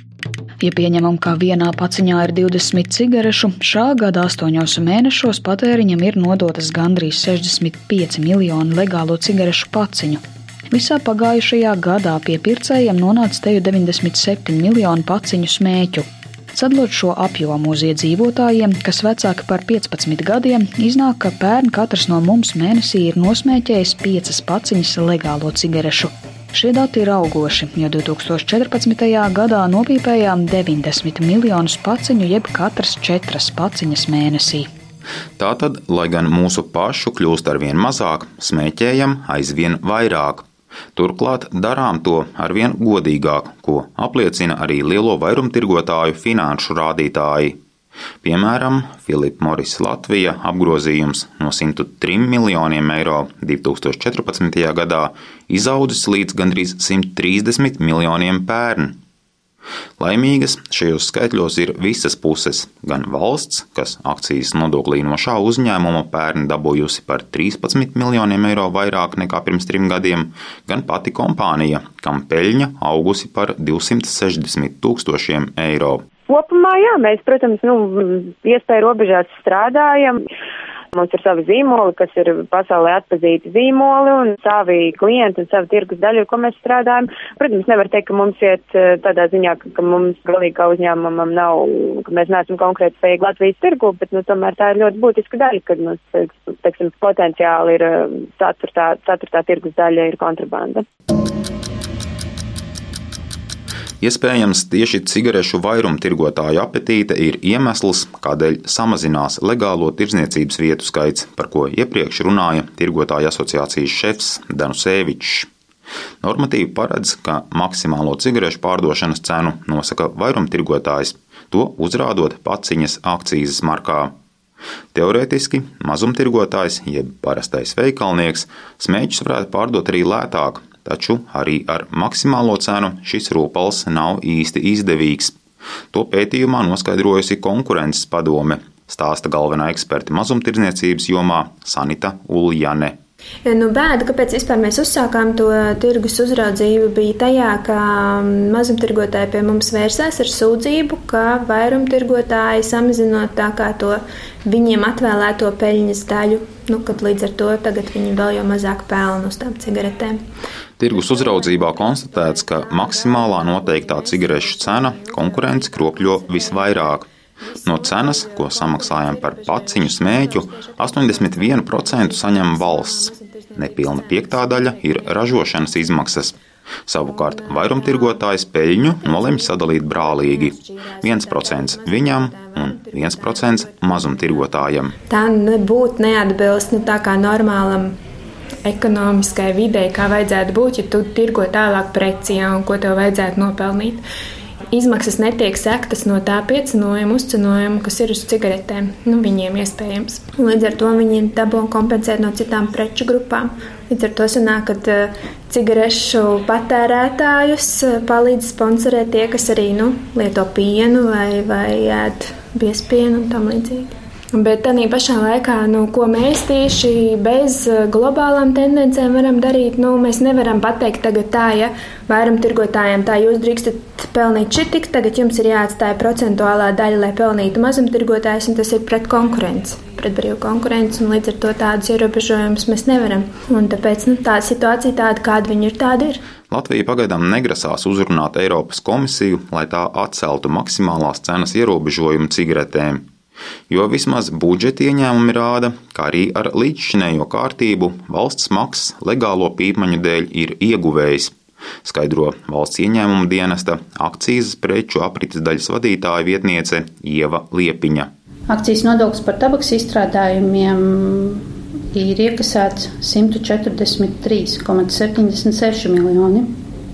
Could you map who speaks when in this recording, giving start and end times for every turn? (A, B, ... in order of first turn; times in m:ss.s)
0:00.6-0:34.7 A
0:35.4-0:40.4 B
0:41.0-0:47.6 B
0:48.2-0:59.0 B
1:00.0-1:16.0 B
1:16.3-1:20.2 C
1:20.9-1:40.8 C
1:44.0-1:55.5 B
1:56.2-2:04.1 B
2:04.9-2:15.3 B
2:15.9-2:22.9 B
2:23.4-2:40.2 D
2:40.8-2:47.1 B
2:43.1-2:43.4 D
2:44.5-2:44.8 D
2:47.6-2:56.4 B
2:47.9-2:48.3 D
2:50.9-2:53.6 D
2:56.9-3:04.9 B
2:57.5-2:57.9 D
2:59.8-3:02.7 D
3:05.1-3:07.9 D
3:08.6-3:14.0 D
3:14.7-3:56.2 D
3:56.5-4:03.0 B
4:03.7-4:18.1 B
4:18.5-4:21.4 E
4:21.9-4:26.5 E